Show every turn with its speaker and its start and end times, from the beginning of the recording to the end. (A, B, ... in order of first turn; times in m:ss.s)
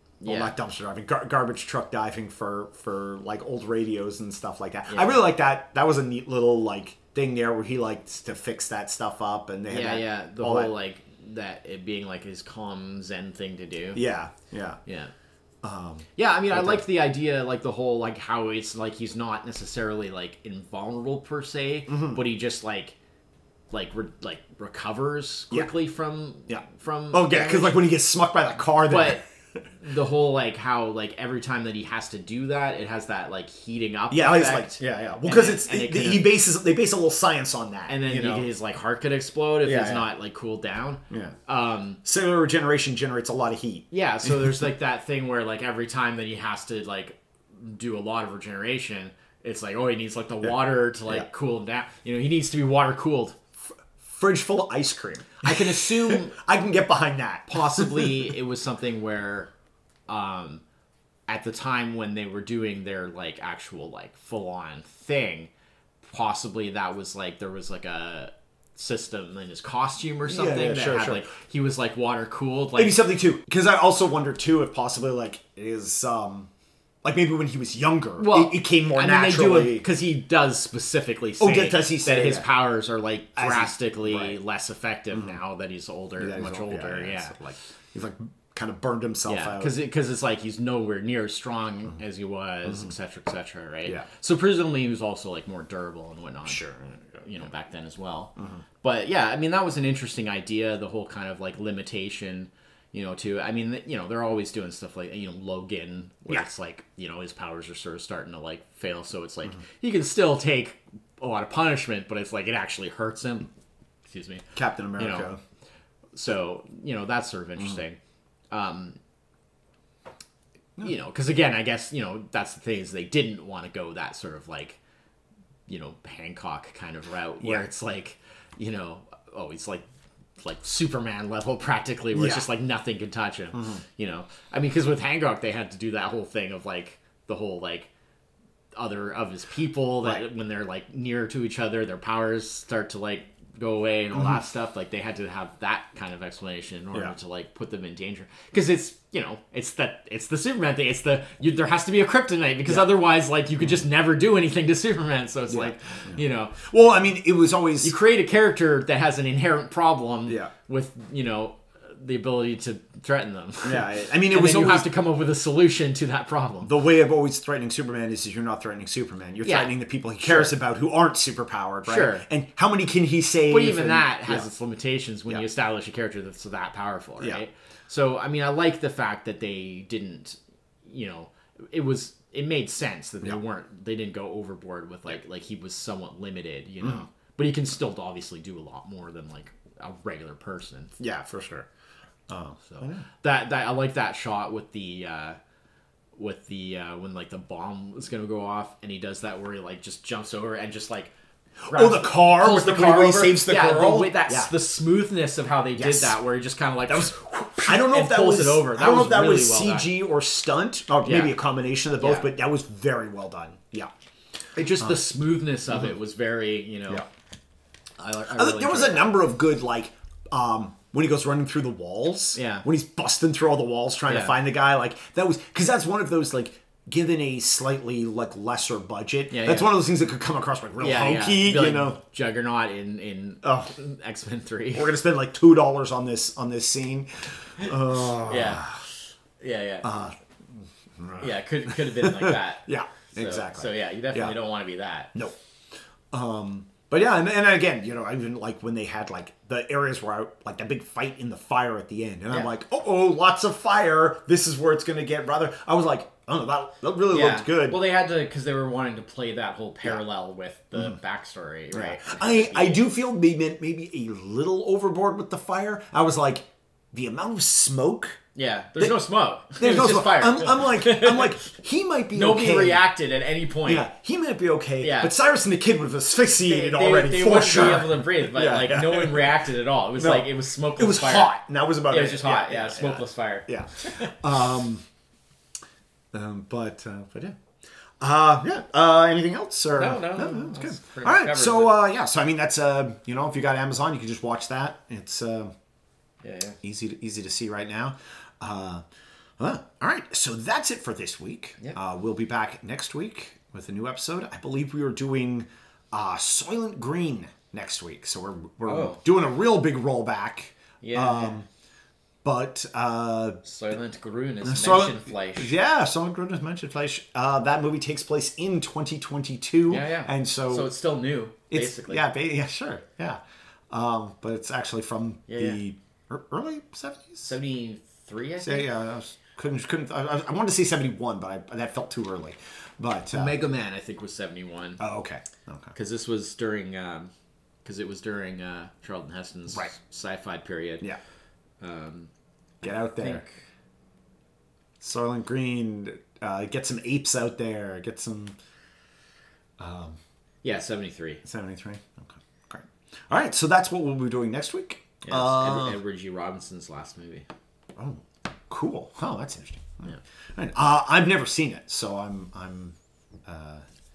0:00.2-0:00.5 A
0:00.2-0:10.7 B
0:04.9-0:05.2 A
0:09.7-0:14.0 A
0:14.0-0:14.8 B
0:14.9-0:15.1 A
0:15.6-0:16.8 B
0:16.2-0:23.0 A
0:21.9-0:22.2 B
0:23.7-0:27.8 A
0:26.5-0:29.6 B
0:28.8-0:29.2 A
0:29.8-0:36.3 A
0:34.1-0:38.5 B
0:37.9-0:42.0 A
0:39.6-0:40.1 B
0:41.1-0:41.4 B
0:42.0-0:44.7 B
0:43.9-0:53.4 A
0:54.0-0:58.3 B
0:55.4-0:56.4 A
0:57.5-0:59.5 A
1:00.1-1:00.6 A
1:01.3-1:05.5 A
1:06.0-1:13.0 A
1:10.2-1:11.3 B
1:12.8-1:16.5 B
1:17.0-1:19.9 B
1:18.2-1:27.4 A
1:21.4-1:22.5 B
1:23.4-1:24.4 B
1:25.1-1:25.4 B
1:26.2-1:29.8 B
1:29.3-1:53.5 A
1:32.7-1:32.9 B
1:36.5-1:37.3 B
1:38.4-1:38.6 B
1:54.1-1:55.3 A
1:54.6-1:55.4 B
1:56.2-1:58.0 A
1:58.5-1:59.0 A
2:00.8-2:04.8 A
2:05.7-2:09.8 A
2:07.4-2:07.7 B
2:10.4-2:17.9 A
2:12.1-2:12.5 B
2:13.5-2:13.8 B
2:18.8-2:36.6 A
2:24.1-2:24.4 B
2:32.7-2:33.0 B
2:35.5-2:38.0 B
2:37.8-2:46.7 A
2:43.6-2:44.9 B
2:46.6-2:54.5 B
2:49.4-2:49.7 A
2:50.2-2:50.5 A
2:51.9-2:52.2 A
2:53.5-3:11.0 A
3:06.8-3:07.1 B
3:11.0-3:11.7 B
3:12.3-3:13.1 B
3:12.7-3:15.4 A
3:16.2-3:21.1 A
3:21.7-3:24.5 B
3:21.7-3:29.9 A
3:25.8-3:26.2 B
3:26.9-3:33.9 B
3:31.0-3:31.4 A
3:32.0-3:32.3 A
3:34.6-3:37.0 A
3:38.0-3:39.2 A
3:38.4-3:52.0 B
3:42.4-3:42.6 A
3:44.1-3:44.4 A
3:49.3-3:49.8 A
3:50.8-3:54.9 A
3:53.4-3:53.7 B
3:54.7-3:58.8 B
3:57.6-3:58.7 A
3:59.4-3:59.9 A
3:59.8-4:04.4 B
4:01.2-4:05.1 A
4:06.1-4:17.8 B
4:17.1-4:22.8 A
4:21.7-4:28.2 B
4:28.4-4:31.5 A
4:29.6-4:32.8 B
4:32.1-4:33.9 A
4:33.7-4:39.3 B
4:34.8-4:35.1 A
4:36.4-4:41.4 A
4:40.0-4:44.8 B
4:41.9-4:44.2 A
4:46.1-4:47.4 B
4:48.0-4:55.5 B
4:49.8-4:51.8 A
4:56.2-4:56.6 A
4:56.6-4:58.8 B
4:59.4-5:11.5 B
5:08.6-5:09.0 A
5:10.8-5:11.4 A
5:12.2-5:13.4 B
5:13.4-5:15.5 A
5:14.4-5:20.7 B
5:19.7-5:22.0 A
5:21.5-5:23.2 B
5:23.7-5:27.3 B
5:25.3-5:25.6 A
5:27.2-5:28.7 A
5:28.4-5:33.4 B
5:33.1-5:34.8 A
5:34.8-5:35.7 B
5:35.7-5:37.1 A
5:37.6-5:40.8 A
5:41.6-5:42.1 A
5:42.6-5:43.2 B
5:42.9-5:43.4 A
5:44.8-5:48.4 B
5:49.6-5:50.0 B
5:50.4-5:51.2 A
5:51.2-5:55.8 B
5:55.0-5:57.3 A
5:57.8-6:02.8 B
6:03.3-6:03.6 B